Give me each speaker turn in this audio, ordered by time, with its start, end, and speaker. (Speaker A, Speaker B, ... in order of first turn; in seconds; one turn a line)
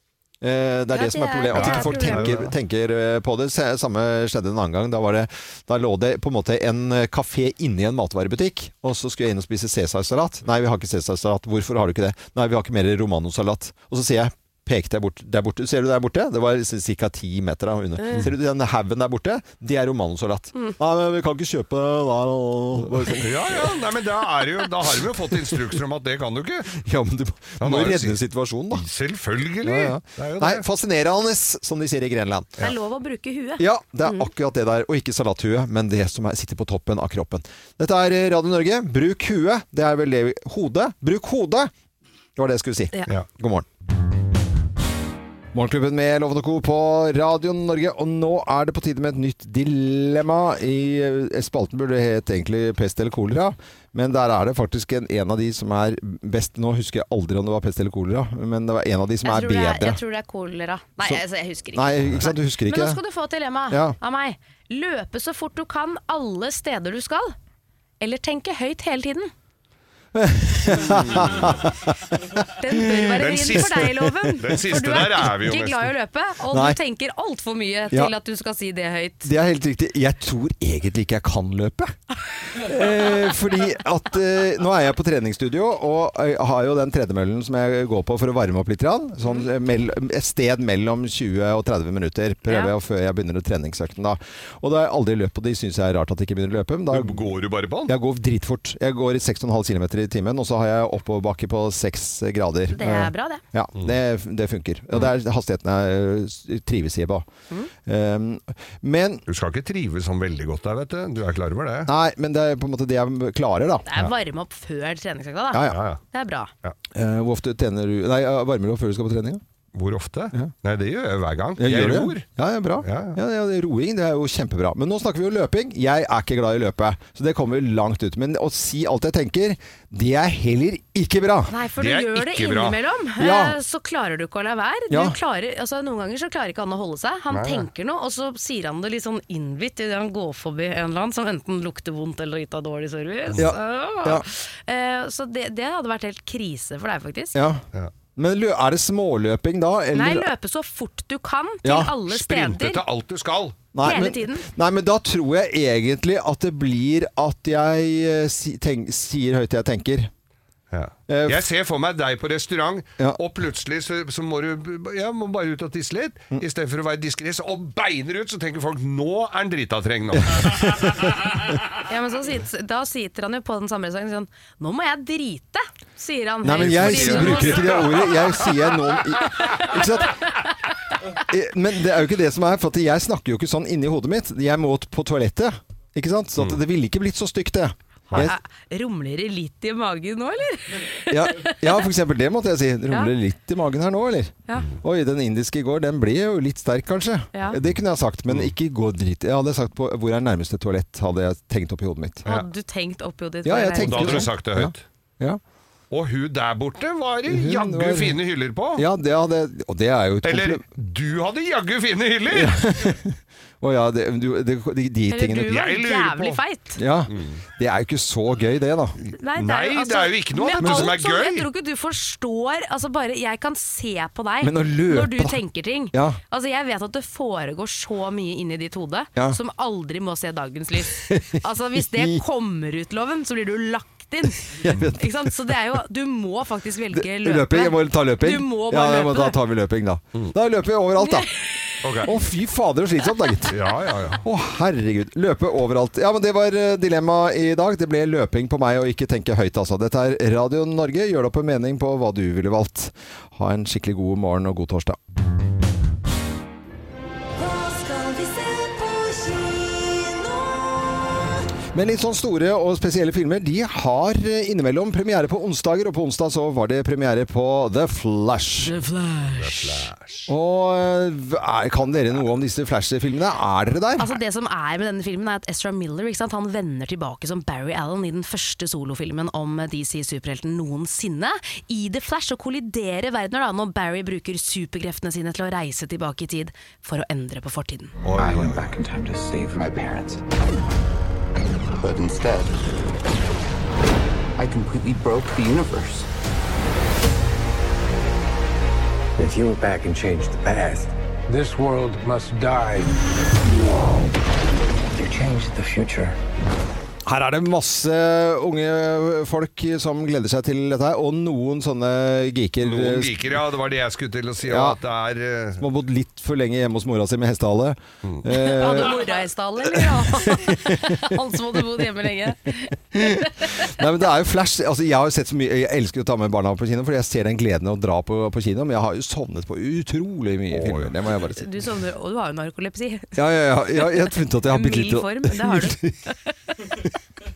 Speaker A: 0.4-23.7
Speaker B: 0.9-2.5
Speaker C: 1.5-2.5
Speaker B: 18.0-18.3
Speaker C: 23.2-26.8
Speaker A: 26.8-28.8
Speaker C: 27.6-28.2
Speaker C: 28.7-30.6
Speaker A: 29.6-32.7
Speaker B: 32.6-34.3
Speaker A: 33.6-41.7
Speaker A: 42.4-43.7
Speaker A: 45.5-60.0
Speaker B: 59.2-67.3
Speaker A: 61.7-63.0
Speaker A: 63.7-64.0
Speaker B: 68.0-69.3
Speaker A: 70.2-74.3
Speaker C: 70.8-71.6
Speaker B: 72.6-79.3
Speaker C: 73.2-75.9
Speaker A: 76.5-76.8
Speaker A: 79.2-82.0
Speaker A: 82.5-97.3
Speaker B: 92.5-92.7
Speaker C: 96.9-97.9
Speaker A: 97.9-107.3
Speaker B: 102.7-103.4
Speaker A: 107.9-109.2
Speaker C: 109.3-111.9
Speaker A: 111.9-113.9
Speaker B: 113.9-116.5
Speaker A: 115.5-115.8
Speaker C: 115.7-116.0
Speaker A: 116.9-119.4
Speaker C: 119.7-122.3
Speaker A: 121.6-131.5
Speaker C: 122.8-123.2
Speaker B: 131.5-147.4
Speaker C: 131.8-132.8
Speaker A: 133.2-133.6
Speaker A: 134.9-135.2
Speaker C: 137.3-137.7
Speaker A: 143.4-144.3
Speaker A: 147.3-147.6
Speaker A: 148.2-150.3
Speaker B: 149.9-152.8
Speaker A: 151.6-151.9
Speaker C: 152.1-153.7
Speaker A: 153.7-160.1
Speaker B: 153.8-154.5
Speaker C: 160.7-170.7
Speaker A: 161.1-161.4
Speaker A: 170.2-171.1
Speaker B: 171.9-178.3
Speaker A: 176.4-180.3
Speaker C: 176.6-178.0
Speaker A: 181.2-188.4
Speaker B: 188.1-191.8
Speaker A: 191.1-202.3
Speaker B: 202.3-204.3
Speaker A: 203.4-205.4
Speaker C: 203.8-204.8
Speaker C: 205.9-208.8
Speaker A: 207.3-208.2
Speaker A: 208.8-210.6
Speaker C: 210.2-213.0
Speaker A: 212.3-215.5
Speaker B: 215.1-216.8
Speaker C: 215.5-216.4
Speaker A: 216.8-219.0
Speaker C: 217.1-217.4
Speaker B: 219.1-239.4
Speaker C: 219.3-221.5
Speaker A: 220.6-220.9
Speaker A: 224.4-225.4
Speaker A: 225.9-226.2
Speaker A: 230.9-232.2
Speaker A: 234.5-235.6
Speaker A: 236.9-241.3
Speaker B: 241.0-241.8
Speaker C: 241.8-242.1
Speaker A: 242.0-243.6
Speaker C: 243.5-244.2
Speaker A: 244.2-255.0
Speaker B: 257.6-260.4
Speaker A: 261.7-268.7
Speaker B: 268.6-269.9
Speaker C: 269.3-270.3
Speaker A: 270.3-274.1
Speaker B: 274.0-287.9
Speaker C: 288.0-288.7
Speaker D: 288.2-290.2
Speaker D: 291.8-292.5
Speaker D: 294.4-296.1
Speaker D: 299.2-302.9
Speaker D: 304.9-306.1
Speaker A: 307.1-313.4
Speaker C: 312.6-315.6
Speaker A: 314.4-314.8
Speaker A: 315.6-319.0
Speaker B: 318.3-323.7
Speaker A: 319.8-321.2
Speaker A: 322.9-331.4
Speaker C: 330.5-330.9
Speaker B: 331.3-333.2
Speaker A: 333.1-336.0
Speaker B: 333.7-336.1